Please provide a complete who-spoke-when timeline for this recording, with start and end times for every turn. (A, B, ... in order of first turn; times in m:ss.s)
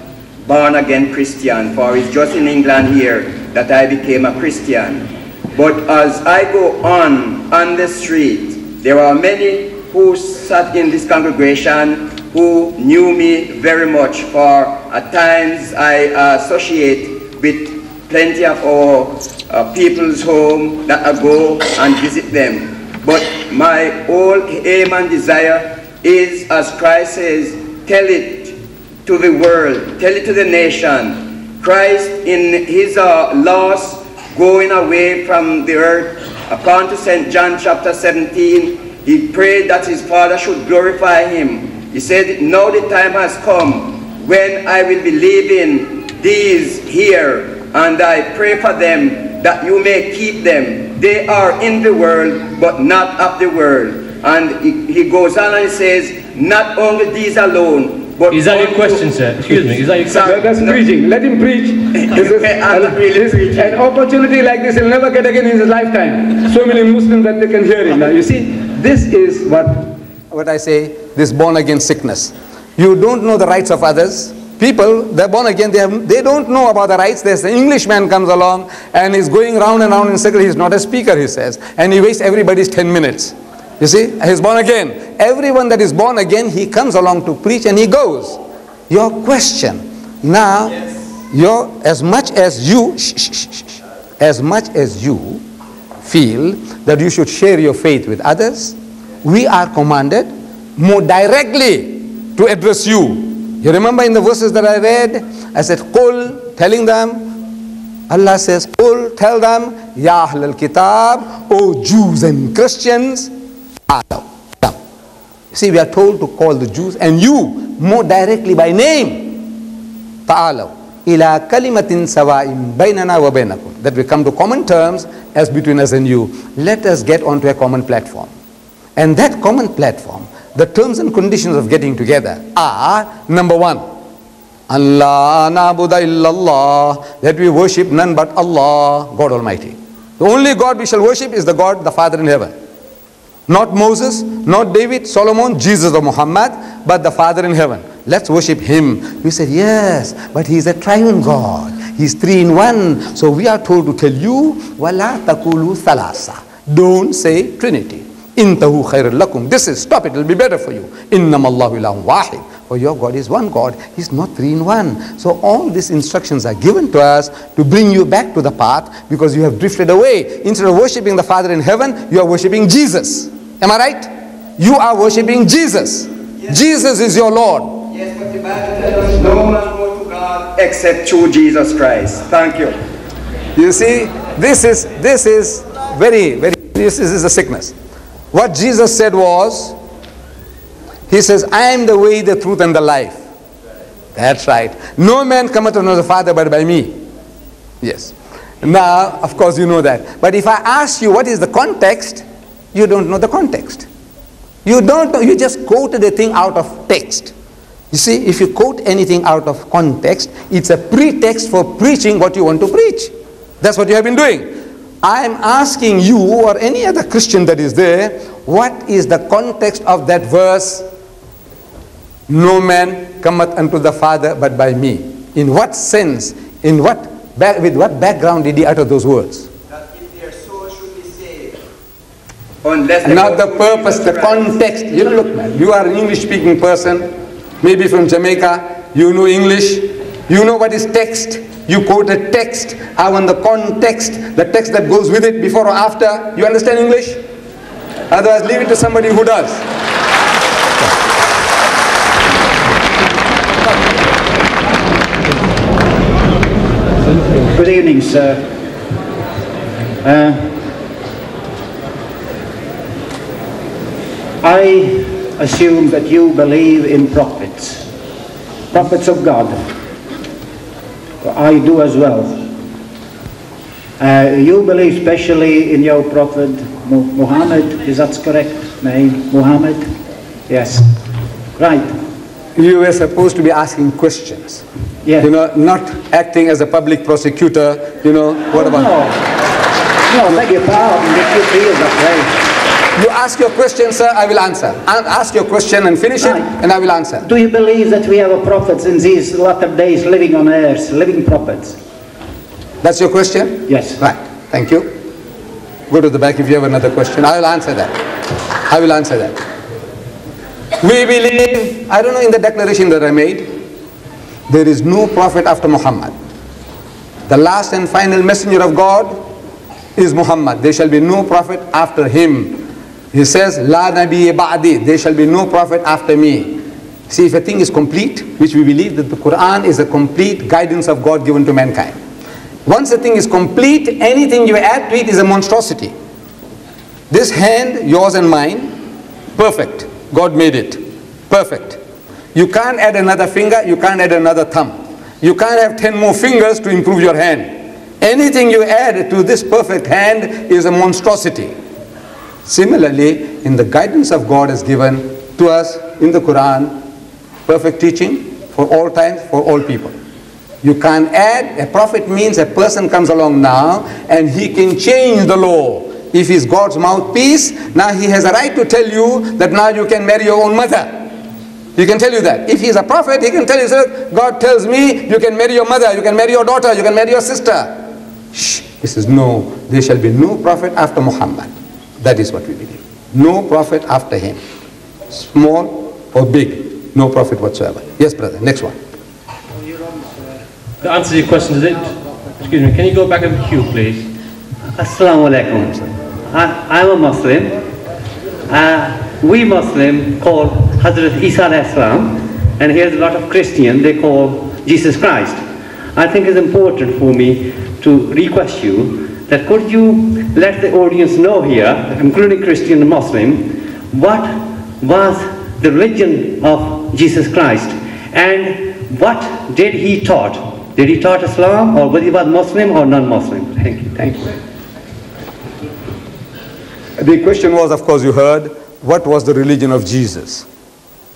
0:00.4-0:59.1 A
0:58.3-1:00.5 B
0:59.9-1:00.8 A
1:00.1-1:35.4 C
1:01.9-1:03.8 A
1:36.0-1:47.4 C
1:48.1-1:53.3 C
1:53.9-1:54.8 C
1:55.5-1:59.6 C
2:00.3-2:08.3 C
2:09.0-2:13.8 C
2:14.7-2:22.5 C
2:23.5-2:57.9 C
2:57.9-3:02.8 A
3:03.6-3:07.7 C
3:08.3-3:09.8 C
3:11.1-3:13.2 C
3:14.2-3:17.0 C
3:17.8-3:23.9 C
3:24.6-3:27.3 C
3:27.9-3:34.5 C
3:35.0-3:40.9 C
3:42.3-3:49.5 C
3:50.0-3:51.5 A
3:52.6-3:54.6 A
3:53.0-3:57.1 C
3:57.6-4:07.2 C
4:08.1-4:09.6 C
4:29.0-4:29.5 D
4:31.2-4:32.3 D
4:34.0-4:39.8 D
4:40.5-4:40.8 D
4:42.6-4:44.6 C
4:45.2-4:49.0 C
4:53.0-4:57.3 C
4:57.5-4:57.7 E
5:02.8-5:04.9 C
5:05.9-5:08.0 C
5:08.7-5:09.4 C
5:10.8-5:13.5 C
5:14.5-5:16.1 C
5:17.3-5:19.2 C
5:20.0-5:32.0 C
5:32.7-5:35.9 C
5:37.1-5:38.7 C
5:39.4-5:41.8 C
5:42.3-5:51.5 C
5:52.5-5:56.8 C
5:57.5-5:59.9 C
6:00.6-6:11.0 C
6:11.8-6:17.8 C
6:18.3-6:24.4 C
6:25.1-6:28.8 C
6:30.8-6:34.1 B
6:34.8-6:37.6 E
6:38.5-6:45.4 E
6:46.0-7:04.3 E
7:07.0-7:10.5 C